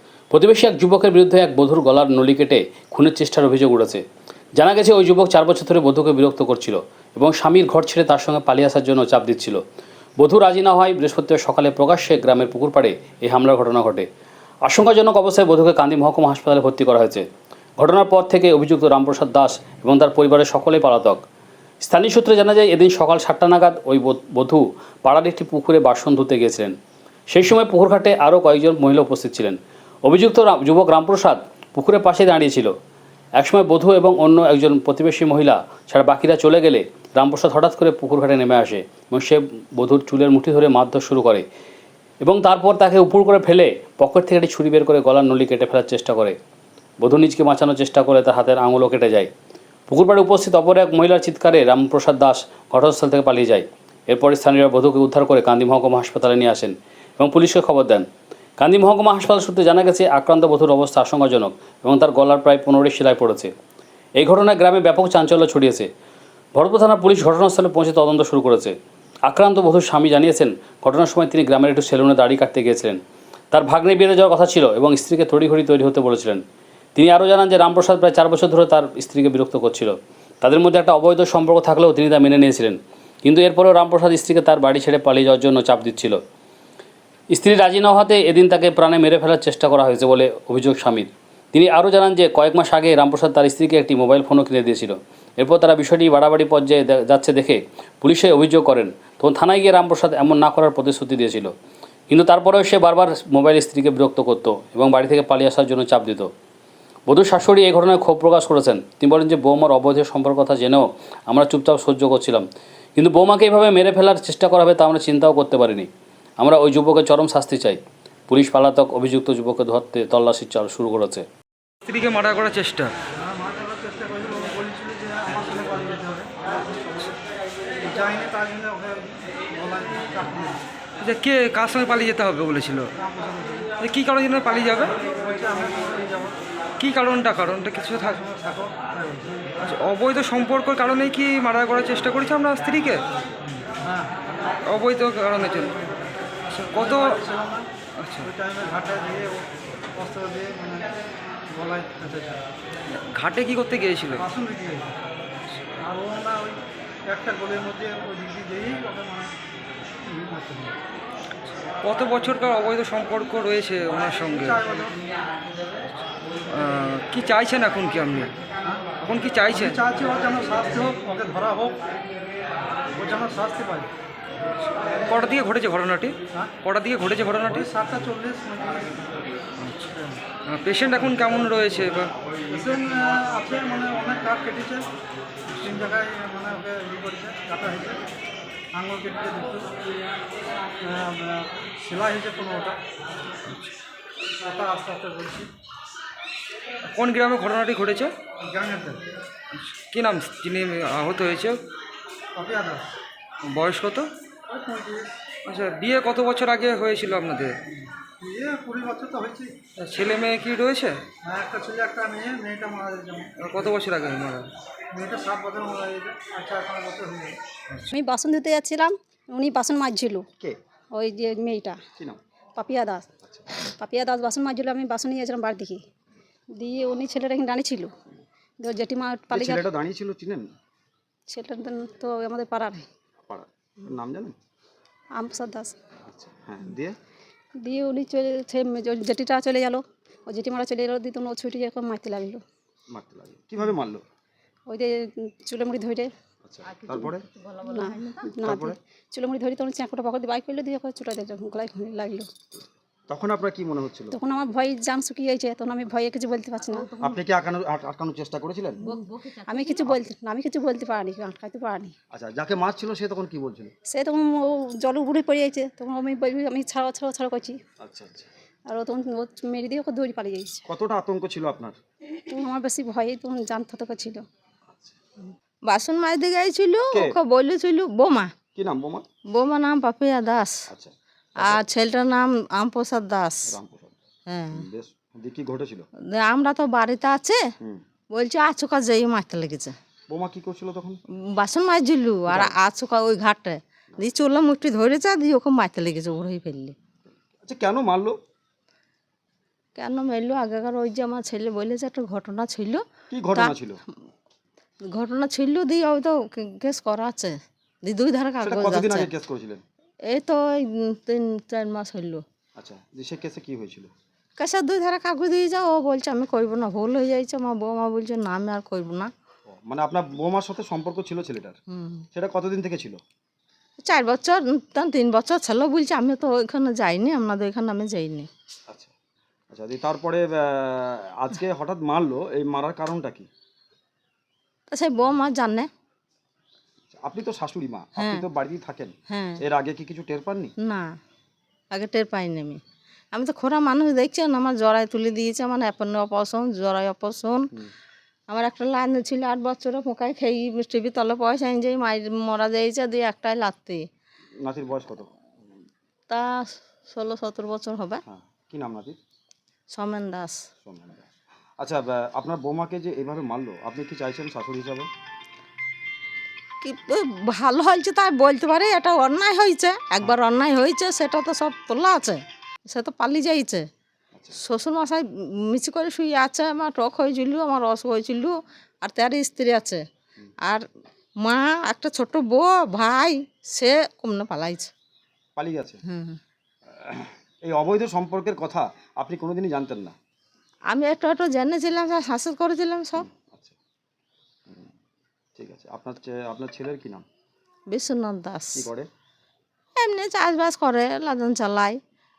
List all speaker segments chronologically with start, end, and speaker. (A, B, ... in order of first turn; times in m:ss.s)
0:00.3-0:04.0 A
0:04.6-0:09.6 A
0:10.2-0:14.1 A
0:14.6-0:17.3 A
0:17.8-0:21.2 A
0:21.8-0:26.7 A
0:27.3-0:32.7 A
0:33.4-0:41.4 A
0:42.2-0:46.4 A
0:47.0-0:49.3 A
0:49.9-0:58.1 A
0:58.6-1:03.5 A
1:04.2-1:05.9 A
1:06.5-1:08.7 A
1:09.2-1:13.0 A
1:13.5-1:16.4 A
1:17.0-1:26.2 A
1:27.3-1:41.5 A
1:42.1-1:46.3 A
1:47.1-1:52.4 A
1:53.0-1:55.9 A
1:56.4-2:01.2 A
2:01.8-2:02.9 B
2:03.2-2:07.1 C
2:07.8-2:10.6 C
2:11.0-2:12.9 B
2:13.0-2:13.6 C
2:13.8-2:15.0 B
2:15.1-2:16.4 C
2:16.8-2:18.2 B
2:17.9-2:19.3 C
2:19.6-2:23.0 B
2:23.8-2:24.2 C
2:24.7-2:25.8 B
2:26.5-2:27.2 B
2:26.7-2:27.7 C
2:28.0-2:28.3 B
2:28.2-2:29.4 C
2:30.0-2:30.9 C
2:31.5-2:32.4 C
2:32.9-2:34.2 B
2:34.2-2:34.9 C
2:35.8-2:39.3 C
2:40.0-2:40.7 C
2:41.4-2:44.6 B
2:44.2-2:44.9 C
2:46.5-2:48.3 B
2:49.0-2:49.8 B
2:49.5-2:51.8 C
2:53.0-2:53.9 C
2:55.1-2:57.7 B
2:57.5-2:59.0 C
2:59.6-2:59.9 B
3:00.5-3:02.1 B
3:02.5-3:04.9 C
3:05.6-3:08.0 C
3:08.7-3:09.7 C
3:10.8-3:12.8 C
3:14.4-3:15.5 C
3:16.9-3:18.1 B
3:18.4-3:19.0 C
3:19.6-3:21.6 B
3:22.3-3:22.8 C
3:23.4-3:24.1 B
3:24.5-3:25.1 C
3:25.4-3:27.6 B
3:28.2-3:29.5 C
3:29.8-3:31.0 B
3:31.2-3:33.3 C
3:33.4-3:34.5 B
3:34.9-3:37.4 C
3:37.9-3:40.2 D
3:40.9-3:41.8 D
3:42.6-3:43.1 D
3:43.2-3:43.5 E
3:43.6-3:45.8 D
3:46.6-3:47.9 D
3:48.6-3:49.6 D
3:49.3-3:50.5 E
3:51.3-3:52.9 D
3:53.3-3:54.3 E
3:55.2-3:55.8 D
3:56.0-3:57.0 E
3:57.6-4:02.4 D
4:02.9-4:04.0 E
4:04.7-4:06.1 D
4:06.4-4:07.2 E
4:06.6-4:08.3 F
4:07.6-4:12.3 D
4:08.4-4:08.8 E
4:13.1-4:14.2 E
4:14.1-4:16.9 D
4:16.6-4:17.2 F
4:17.0-4:18.8 E
4:18.8-4:19.8 F
4:19.5-4:21.9 D
4:22.1-4:23.7 E
4:23.9-4:27.6 D
4:27.8-4:28.3 E
4:28.7-4:30.6 D
4:30.7-4:31.8 E
4:32.3-4:34.2 D
4:35.7-4:38.3 F
4:38.5-4:39.1 E
4:39.3-4:40.6 F
4:40.7-4:41.6 E
4:41.4-4:43.6 F
4:43.5-4:44.0 E
4:44.3-4:44.6 F
4:44.5-4:45.9 E
4:46.1-4:47.4 F
4:48.1-4:49.7 F
4:50.1-4:51.0 E
4:51.3-4:56.7 F
4:52.3-4:52.5 E
4:57.4-4:58.2 E
4:59.8-5:03.5 F
5:03.1-5:03.8 E
5:04.9-5:09.1 F
5:08.4-5:09.6 E
5:10.1-5:12.2 F
5:12.6-5:13.9 E
5:14.4-5:19.1 F
5:19.5-5:21.6 E
5:21.7-5:22.0 F
5:22.1-5:23.0 E
5:23.8-5:28.3 F
5:29.5-5:33.3 E
5:34.7-5:35.7 F
5:36.9-5:40.5 E
5:38.0-5:38.2 F
5:39.1-5:39.4 F
5:40.6-5:40.9 F
5:41.7-5:42.6 F
5:43.1-5:47.5 F
5:48.3-5:53.8 F
5:54.4-5:55.1 E
5:56.1-5:58.0 F
5:58.0-5:59.0 E
5:59.7-6:00.5 F
6:00.6-6:01.1 E
6:01.6-6:04.9 E
6:06.6-6:13.7 F
6:14.3-6:19.8 F
6:21.2-6:24.7 F
6:25.4-6:25.8 E
6:25.8-6:26.2 F
6:26.7-6:30.0 E
6:30.7-6:33.1 F
6:33.1-6:33.6 E
6:35.4-6:37.0 E
6:37.7-6:38.7 F
6:38.6-6:38.9 E
6:39.8-6:41.8 F